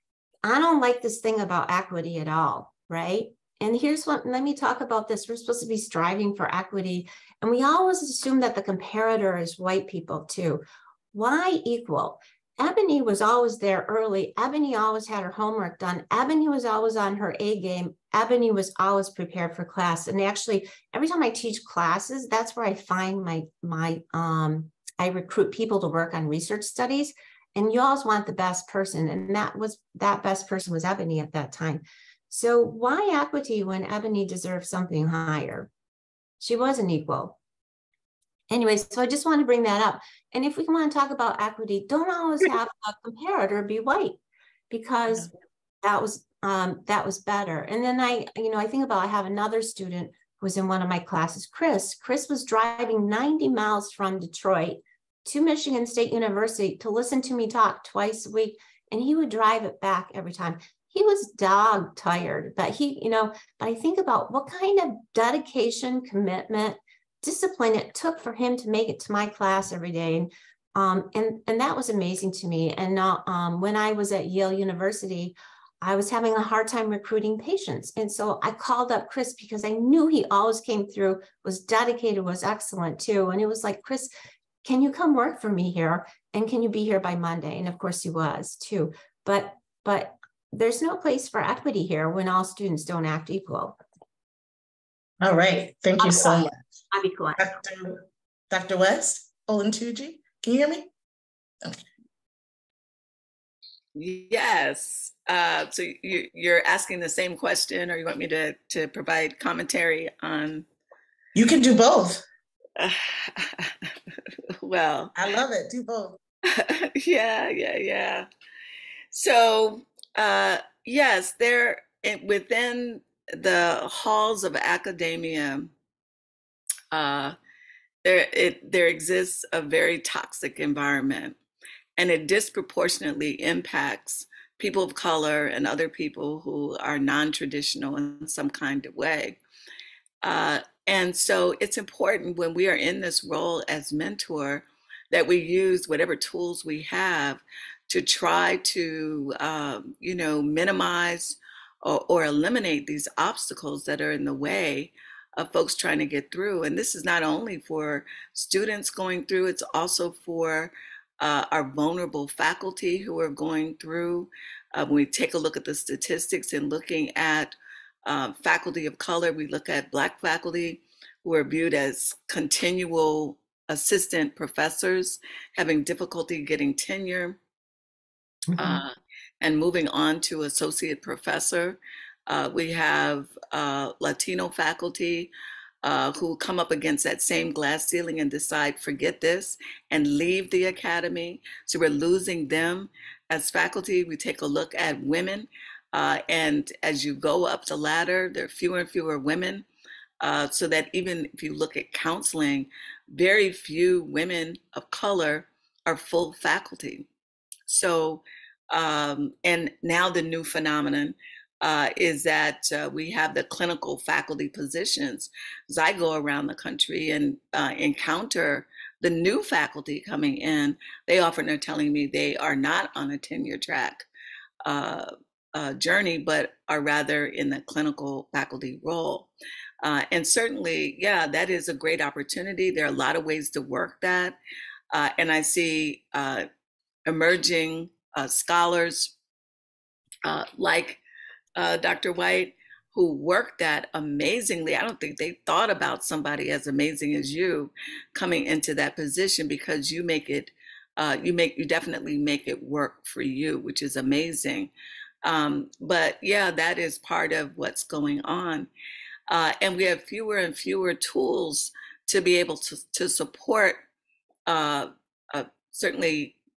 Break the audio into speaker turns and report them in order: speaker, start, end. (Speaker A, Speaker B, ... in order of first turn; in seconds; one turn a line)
Speaker A: 0.5-35.7
Speaker A: 36.4-37.4
Speaker A: 38.5-44.2
Speaker A: 44.7-45.3
Speaker A: 45.8-84.1
Speaker A: 84.6-93.8
Speaker B: 95.2-96.6
Speaker A: 96.0-97.4
Speaker B: 97.4-100.9
Speaker C: 104.0-110.7
Speaker B: 111.3-112.2
Speaker C: 112.8-115.1
Speaker B: 115.2-116.2
Speaker C: 116.5-118.3
Speaker C: 119.1-125.7
Speaker C: 126.9-127.4
Speaker C: 128.0-131.4
Speaker C: 132.0-139.4
Speaker C: 140.2-167.6
Speaker C: 168.1-177.4
Speaker A: 178.5-178.8
Speaker C: 178.6-185.3
Speaker C: 185.8-199.7
Speaker C: 200.2-207.1
Speaker C: 207.7-224.1
Speaker C: 224.7-229.3
Speaker C: 229.8-234.4
Speaker C: 234.9-236.5
Speaker C: 237.1-239.1
Speaker C: 240.2-241.0
Speaker C: 241.6-254.7
Speaker C: 255.2-258.7
Speaker C: 259.3-263.8
Speaker C: 264.5-266.4